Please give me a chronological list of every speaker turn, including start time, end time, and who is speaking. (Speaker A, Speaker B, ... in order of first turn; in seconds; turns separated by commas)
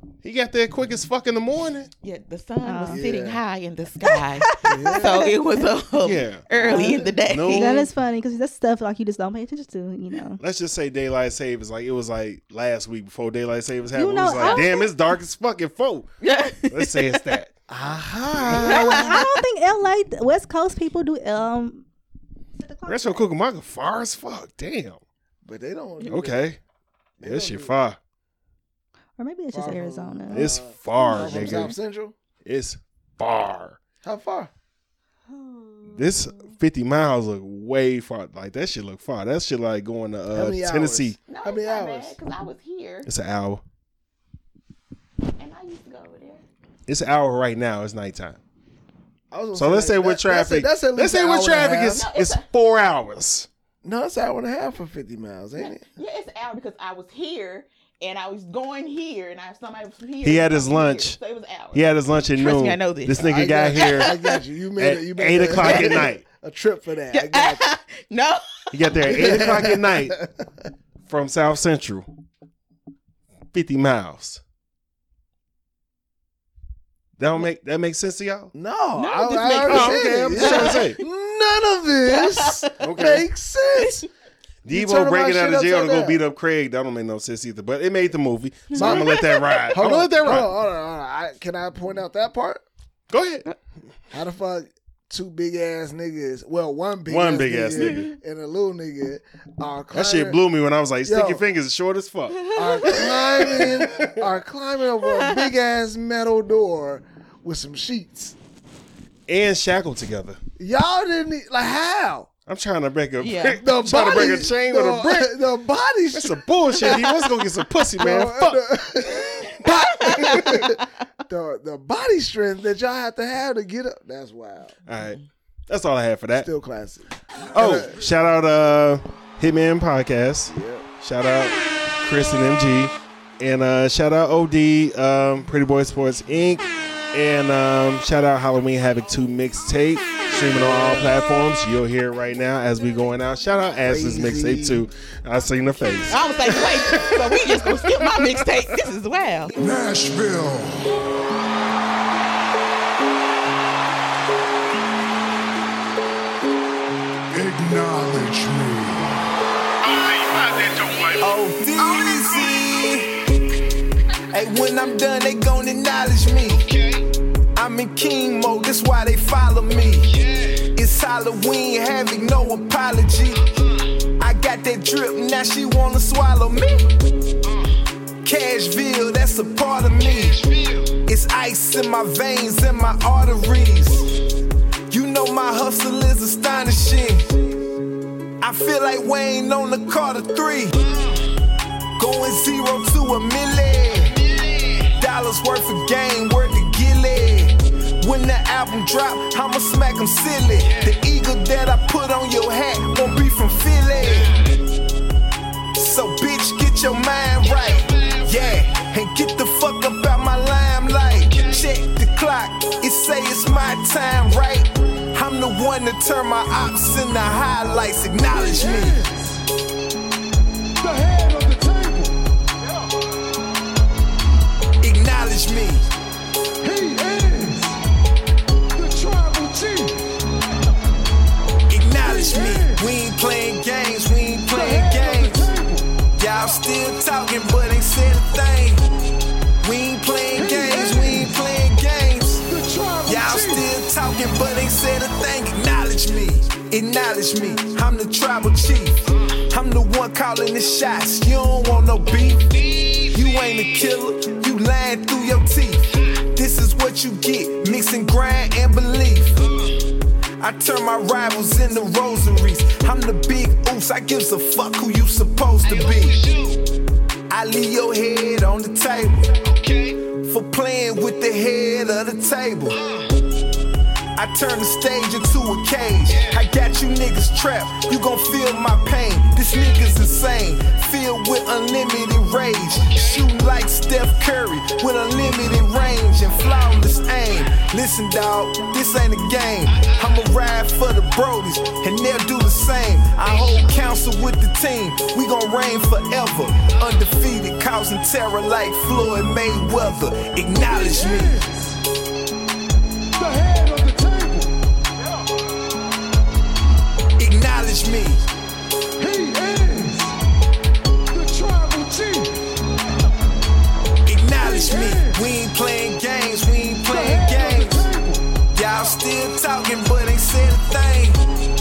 Speaker A: 0.2-1.9, Speaker B: 2.0-7.8, Speaker C: 2.6-3.1, Speaker D: 2.9-3.4, Speaker C: 4.1-5.2, Speaker D: 4.6-5.3, Speaker A: 6.0-6.5, Speaker C: 6.6-10.4, Speaker A: 7.3-7.9, Speaker A: 10.4-16.1, Speaker C: 13.9-14.9, Speaker B: 16.2-17.2, Speaker A: 16.7-17.6, Speaker D: 17.7-19.4, Speaker A: 18.4-18.8, Speaker B: 18.6-19.2, Speaker C: 18.8-21.9, Speaker C: 22.6-23.3, Speaker A: 22.9-25.0, Speaker D: 25.4-26.4, Speaker A: 26.1-26.6, Speaker D: 27.2-27.7, Speaker A: 27.2-28.0, Speaker C: 29.2-31.5, Speaker D: 29.5-32.1, Speaker A: 30.3-31.8, Speaker A: 32.4-33.8, Speaker D: 34.0-34.5, Speaker A: 35.9-41.2, Speaker D: 40.3-42.2, Speaker B: 41.3-43.1, Speaker A: 43.0-43.6, Speaker B: 45.4-46.4, Speaker A: 46.9-48.4, Speaker D: 49.3-52.1, Speaker A: 49.5-53.5, Speaker B: 51.8-52.5, Speaker D: 53.8-55.9, Speaker B: 55.6-64.4, Speaker A: 60.2-61.2, Speaker A: 61.7-64.2, Speaker D: 63.2-67.7, Speaker A: 64.8-66.3, Speaker B: 65.6-66.0, Speaker B: 67.1-68.7, Speaker A: 68.7-70.2, Speaker D: 69.1-70.5, Speaker A: 71.0-72.1, Speaker A: 73.5-74.4, Speaker A: 77.2-78.5, Speaker D: 78.5-84.1, Speaker B: 79.0-80.8, Speaker A: 79.7-81.0, Speaker B: 82.1-82.7, Speaker A: 82.8-83.3, Speaker A: 84.7-90.5, Speaker D: 84.7-86.2, Speaker B: 88.7-89.8, Speaker D: 88.7-92.6, Speaker A: 93.1-93.5, Speaker D: 94.1-100.4, Speaker A: 97.1-98.1, Speaker A: 99.9-102.6, Speaker D: 101.0-101.4, Speaker B: 102.5-103.6, Speaker D: 102.5-108.4, Speaker A: 103.5-104.1, Speaker A: 109.3-110.4, Speaker D: 110.6-112.3, Speaker A: 112.5-115.4, Speaker B: 113.2-113.6, Speaker D: 113.6-117.2, Speaker A: 116.1-118.7, Speaker D: 118.0-124.8, Speaker B: 119.6-120.9, Speaker A: 124.9-126.5, Speaker D: 126.3-128.1, Speaker A: 127.5-148.5, Speaker D: 130.5-130.9, Speaker D: 140.4-141.1, Speaker D: 143.9-144.9, Speaker B: 146.1-149.6, Speaker E: 149.6-150.9, Speaker E: 157.3-159.2, Speaker F: 161.1-163.2, Speaker F: 164.3-166.9, Speaker F: 167.6-173.5, Speaker F: 174.2-176.9, Speaker F: 178.2-184.1, Speaker F: 184.9-187.3, Speaker F: 188.4-190.9, Speaker F: 192.0-204.5, Speaker F: 205.8-219.2, Speaker E: 218.2-219.4, Speaker E: 220.8-222.2, Speaker F: 224.8-225.9, Speaker E: 226.6-227.8, Speaker E: 228.8-230.1, Speaker F: 231.7-235.5, Speaker E: 232.0-232.9, Speaker E: 234.5-236.0, Speaker F: 236.1-238.9, Speaker F: 239.6-242.5, Speaker E: 240.3-241.3, Speaker E: 242.5-243.7, Speaker F: 243.1-259.4, Speaker F: 260.4-266.5, Speaker F: 267.3-272.8, Speaker F: 274.2-301.7, Speaker E: 300.6-301.6, Speaker E: 303.2-304.6, Speaker F: 307.2-308.3, Speaker E: 309.0-310.2, Speaker E: 311.1-312.5, Speaker F: 314.1-317.9, Speaker E: 314.4-315.2, Speaker E: 316.9-318.3, Speaker F: 318.5-321.2